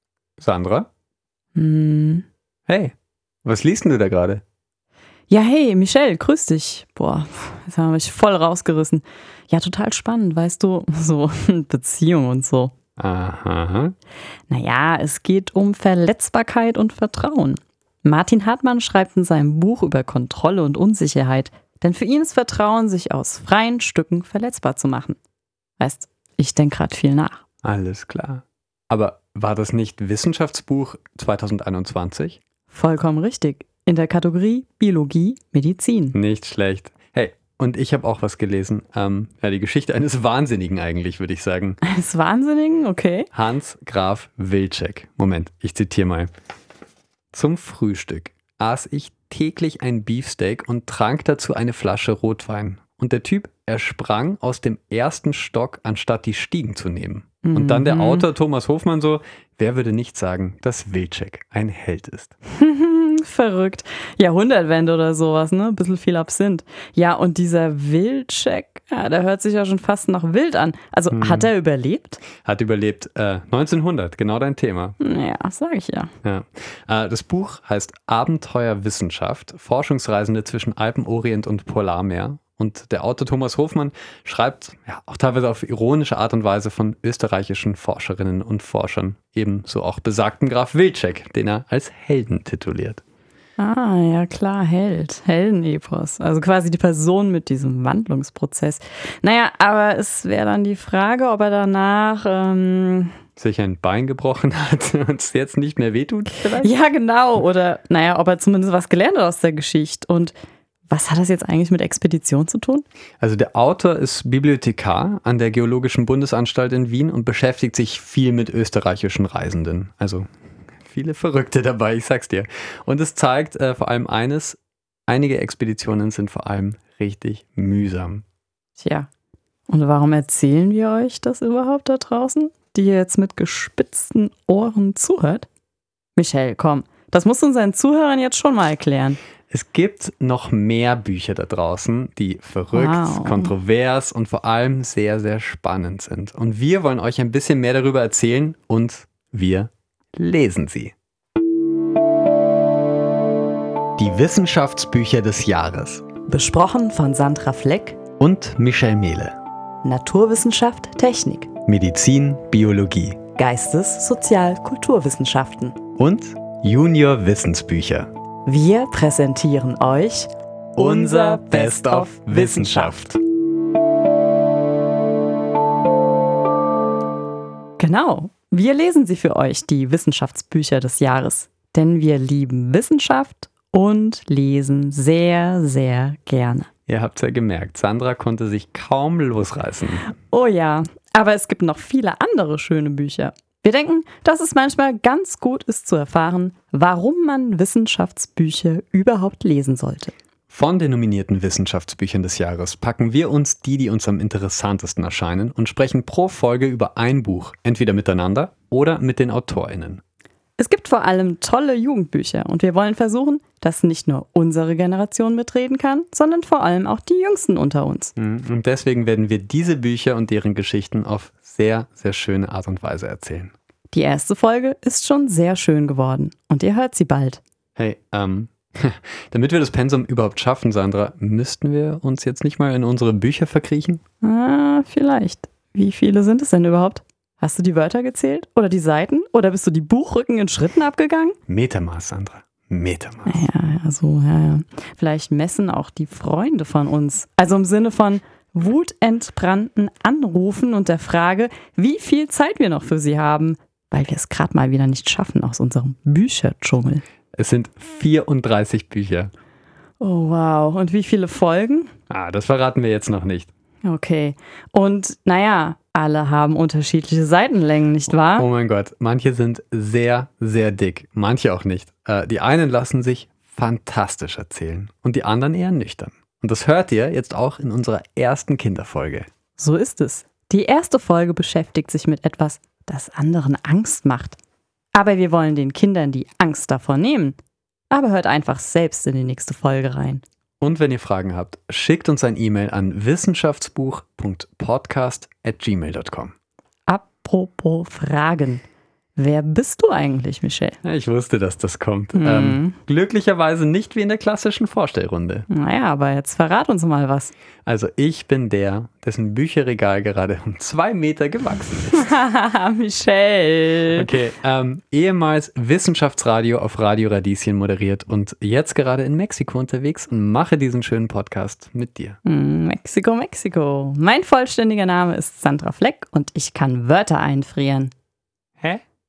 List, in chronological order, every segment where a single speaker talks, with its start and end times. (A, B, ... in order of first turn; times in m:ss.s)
0:00.4-0:00.9 A
0:01.5-0:02.2 B
0:02.7-0:04.4 A
0:05.3-0:12.7 B
0:13.0-0:13.9 A
0:14.5-0:25.2 B
0:25.8-0:27.4 B
0:27.6-0:32.4 A
0:32.7-0:36.2 B
0:36.1-0:41.8 A
0:41.8-0:43.3 B
0:43.3-0:46.3 A
0:47.3-1:02.3 A
0:57.4-0:58.2 B
1:02.6-1:12.2 B
1:11.1-1:11.5 A
1:12.4-1:15.0 A
1:15.0-1:16.1 B
1:16.2-1:33.0 A
1:33.6-1:43.2 B
1:43.4-1:46.7 A
1:46.6-1:50.3 B
1:50.9-1:52.8 B
1:53.2-2:00.2 A
2:00.8-2:08.2 A
2:08.8-2:09.1 B
2:09.7-2:15.5 B
2:16.2-2:19.2 B
2:19.5-2:30.9 A
2:22.7-2:23.5 B
2:34.0-2:36.0 A
2:36.3-2:38.0 B
2:38.2-2:39.4 A
2:39.8-2:41.5 B
2:41.6-2:43.2 A
2:43.4-2:45.8 B
2:46.0-2:48.1 A
2:48.4-2:53.0 B
2:50.8-2:53.2 A
2:57.8-3:06.7 B
3:06.9-3:10.1 A
3:10.3-3:20.1 B
3:20.5-3:30.0 A
3:30.6-3:38.1 B
3:38.2-3:43.5 A
3:43.9-3:47.4 B
3:47.8-3:54.0 A
3:54.2-4:01.4 B
4:01.5-4:03.4 A
4:03.2-4:17.0 B
4:17.4-4:19.3 A
4:20.0-4:21.9 B
4:22.1-4:23.5 A
4:23.8-4:28.5 B
4:28.3-4:39.3 A
4:39.6-4:44.4 B
4:44.9-4:47.4 B
4:47.9-4:50.2 B
4:50.6-4:56.3 A
4:56.9-4:58.6 B
4:59.2-5:00.8 B
5:00.8-5:05.5 A
5:02.1-5:02.8 B
5:05.5-5:07.3 B
5:07.6-5:12.0 A
5:11.9-5:14.1 B
5:13.9-5:22.2 A
5:22.2-5:27.9 B